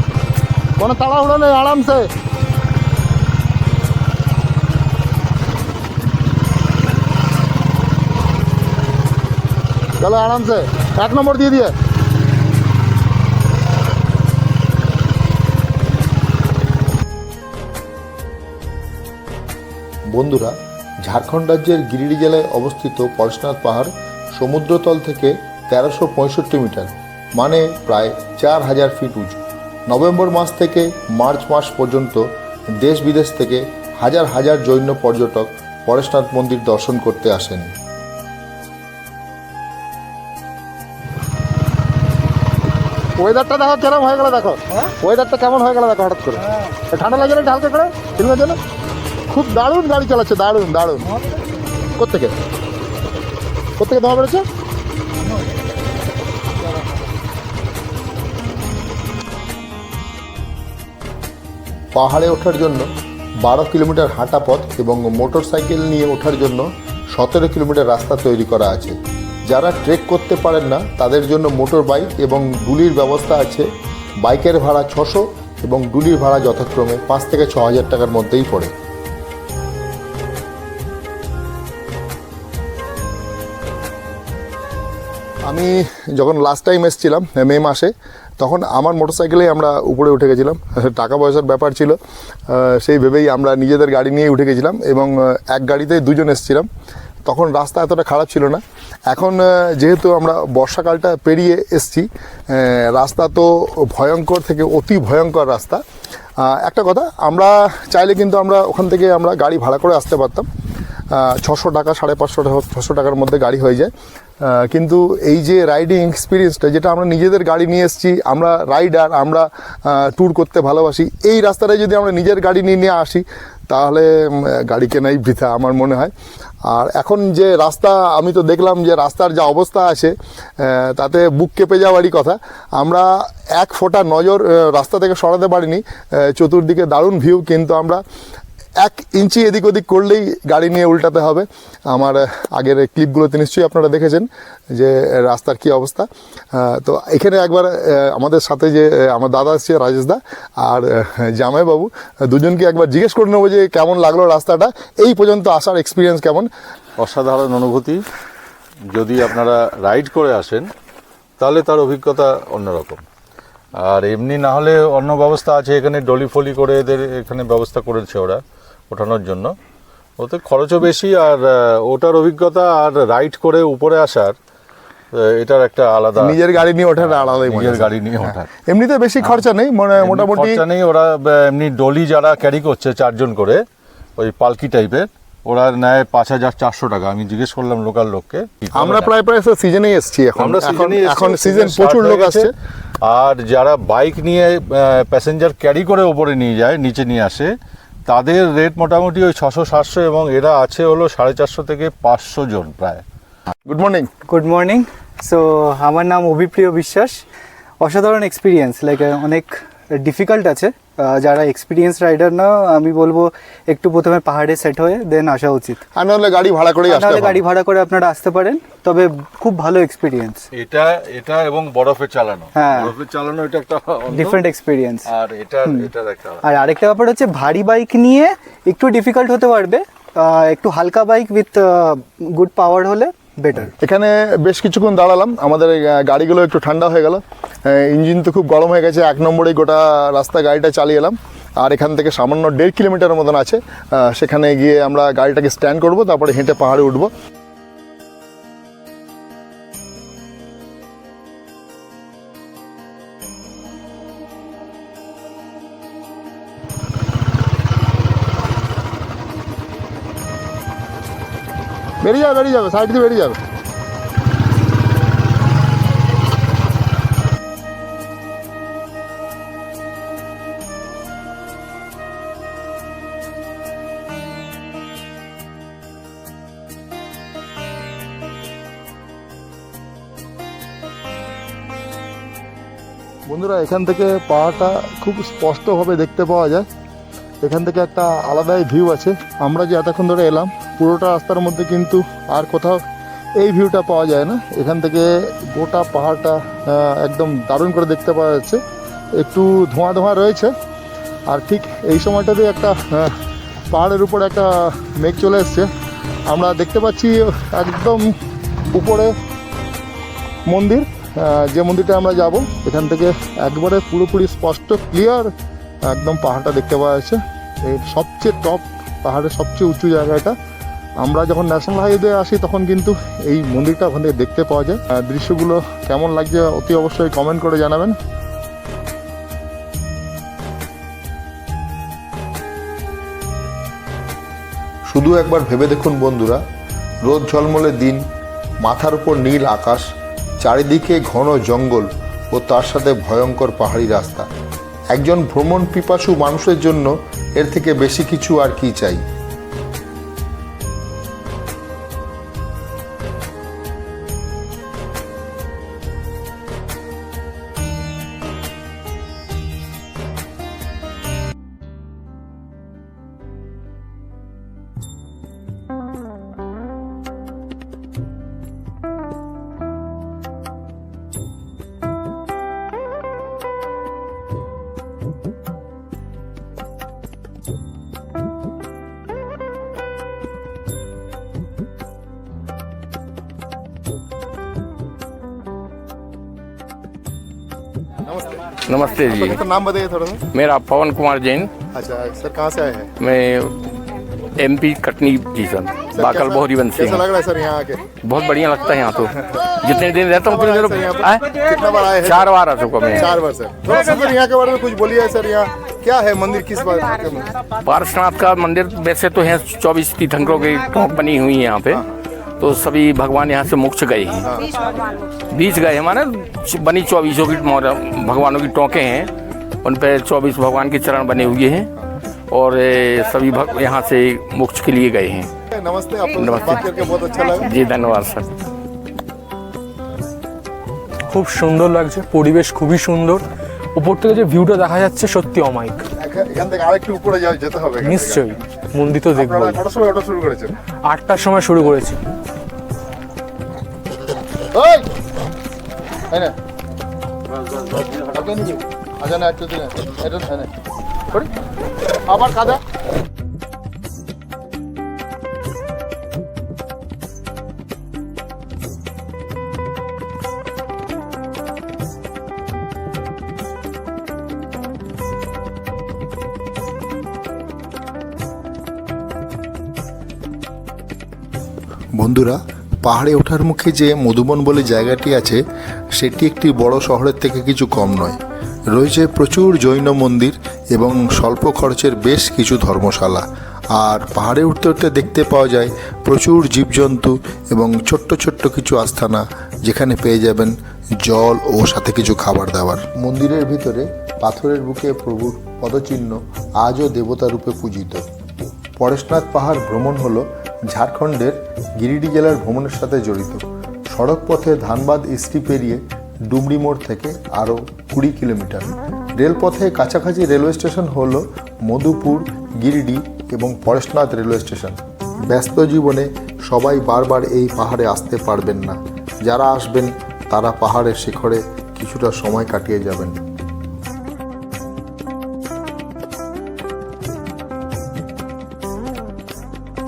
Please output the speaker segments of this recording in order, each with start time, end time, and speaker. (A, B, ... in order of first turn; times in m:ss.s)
0:00.8-0:02.1 A
0:10.0-0:11.7 A
0:20.1-0:32.2 A
0:32.8-0:37.7 A
0:43.2-0:48.6 A
0:49.3-0:51.1 A
0:51.9-0:52.4 A
0:53.8-0:54.4 A
1:01.9-1:02.9 A
1:03.4-1:08.9 A
1:09.4-1:13.7 A
1:14.2-1:18.7 A
1:25.4-1:32.0 A
1:32.5-1:36.7 A
1:37.2-1:45.8 A
1:46.4-1:50.5 A
1:51.1-1:53.9 A
1:54.4-2:06.1 A
2:06.7-2:18.0 A
2:18.8-2:36.5 A
2:37.0-2:38.0 B
2:38.9-2:40.7 B
2:41.4-2:43.0 B
2:43.8-2:49.6 B
2:50.2-2:54.4 B
2:55.1-2:56.4 B
2:56.2-2:57.9 A
2:57.0-2:58.5 B
2:58.7-3:00.6 A
3:00.0-3:03.6 B
3:04.2-3:09.1 B
3:08.7-3:12.5 A
3:10.4-3:12.5 B
3:13.0-3:17.5 B
3:18.1-3:23.0 B
3:23.7-3:24.1 A
3:24.3-3:27.2 C
3:27.8-3:35.8 C
3:36.0-3:37.4 A
3:36.9-3:40.4 C
3:40.5-3:44.4 B
3:42.5-3:42.9 C
3:44.1-3:45.1 C
3:45.1-3:46.4 B
3:46.4-3:53.7 C
3:53.8-4:07.1 A
4:22.0-4:23.4 A
4:43.3-4:46.6 A
4:47.4-4:52.8 A
4:53.4-4:58.6 A
4:59.2-5:00.5 A
5:01.3-5:03.2 A
5:03.7-5:05.7 A
5:06.3-5:08.1 A
5:08.7-5:09.1 A
5:10.5-5:15.3 A
5:15.9-5:20.3 A
5:21.0-5:28.0 A
5:34.9-5:36.4 A
5:37.0-5:38.0 A
5:38.6-5:39.9 A
5:40.4-5:44.3 A
5:44.9-5:49.0 A
6:28.0-6:28.6 A
6:28.7-6:29.4 D
6:29.1-6:30.2 A
6:30.3-6:31.5 D
6:31.7-6:32.9 A
6:33.0-6:33.6 D
6:34.4-6:37.1 D
6:35.9-6:37.9 A
6:38.0-6:43.1 D
6:40.2-6:42.3 A
6:42.9-6:47.3 A
6:47.6-6:51.8 D
6:52.4-6:54.3 D
6:55.3-6:59.1 D
6:59.6-7:01.7 D
7:02.3-7:05.3 D
7:05.5-7:07.5 A
7:06.2-7:06.6 D
7:07.3-7:08.3 D
7:11.1-7:13.2 E
7:13.8-7:15.8 E
7:16.0-7:18.2 A
7:17.8-7:19.6 E
7:19.1-7:20.5 A
7:20.9-7:22.0 E
7:24.5-7:24.9 A
7:27.9-7:30.5 A
7:32.1-7:32.6 A
7:51.9-7:55.4 A
7:55.9-7:58.2 A
7:58.7-8:18.0 A
8:18.8-8:34.8 A
8:35.3-8:43.2 A